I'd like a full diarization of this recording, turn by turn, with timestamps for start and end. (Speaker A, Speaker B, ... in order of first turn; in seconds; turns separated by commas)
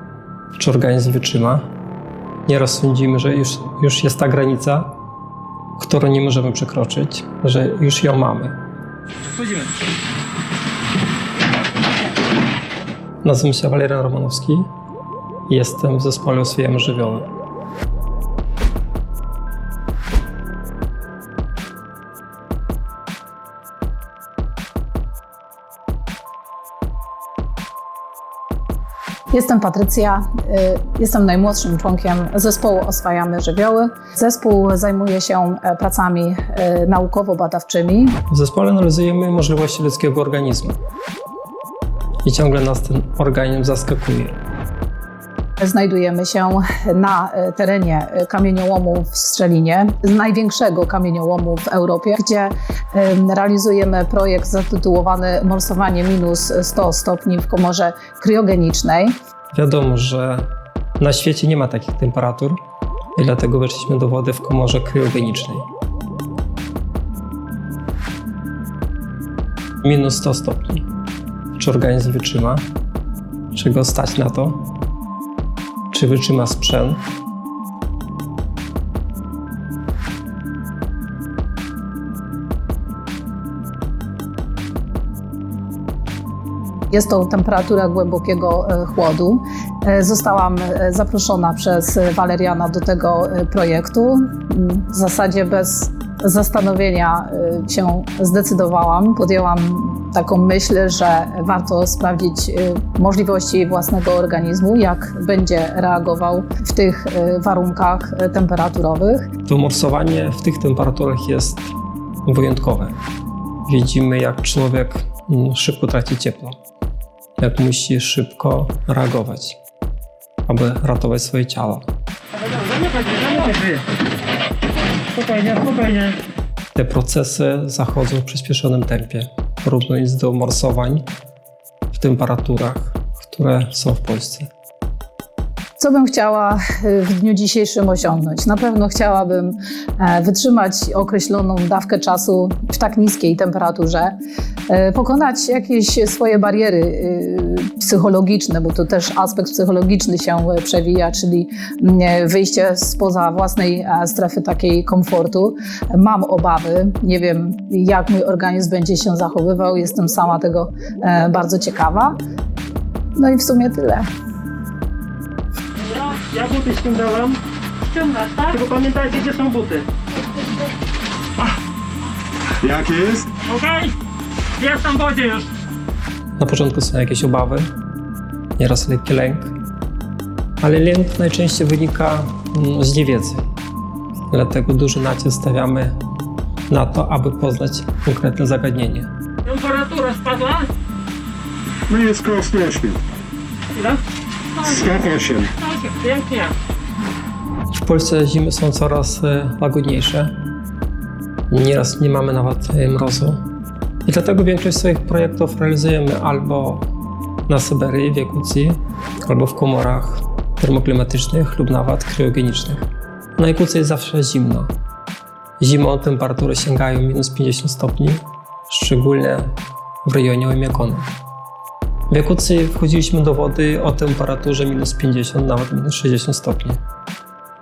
Speaker A: 0.6-1.7, Speaker A: 2.5-5.0, Speaker A: 5.8-8.6, Speaker A: 13.2-14.7, Speaker A: 15.5-17.3, Speaker B: 29.3-38.2, Speaker A: 38.3-40.8, Speaker A: 42.2-44.4, Speaker B: 45.6-59.1, Speaker A: 59.5-60.5, Speaker A: 61.0-62.6, Speaker A: 63.2-65.7, Speaker A: 69.8-70.8, Speaker A: 71.6-72.6, Speaker A: 73.5-74.6, Speaker A: 75.9-77.0, Speaker B: 86.9-109.3, Speaker A: 109.5-111.7, Speaker A: 112.3-113.0, Speaker A: 113.7-116.6, Speaker A: 117.4-119.6, Speaker A: 120.5-121.9, Speaker C: 122.4-123.8, Speaker C: 125.1-126.2, Speaker A: 126.8-131.1, Speaker A: 131.9-134.5, Speaker B: 135.8-144.1, Speaker B: 144.7-162.2, Speaker B: 163.2-164.1, Speaker C: 165.8-169.9, Speaker D: 172.6-173.3, Speaker C: 173.4-173.9, Speaker C: 174.6-175.5, Speaker A: 176.4-177.7, Speaker A: 178.6-179.6, Speaker A: 180.6-183.4, Speaker A: 184.3-186.0, Speaker A: 186.7-189.1, Speaker C: 189.4-190.7, Speaker D: 191.9-193.0, Speaker C: 193.7-194.0, Speaker C: 194.6-194.9, Speaker D: 194.6-195.5, Speaker C: 195.6-196.5, Speaker A: 197.7-200.3, Speaker A: 201.5-203.4, Speaker A: 204.1-206.9, Speaker A: 207.5-214.7, Speaker A: 215.6-221.1, Speaker A: 222.1-226.8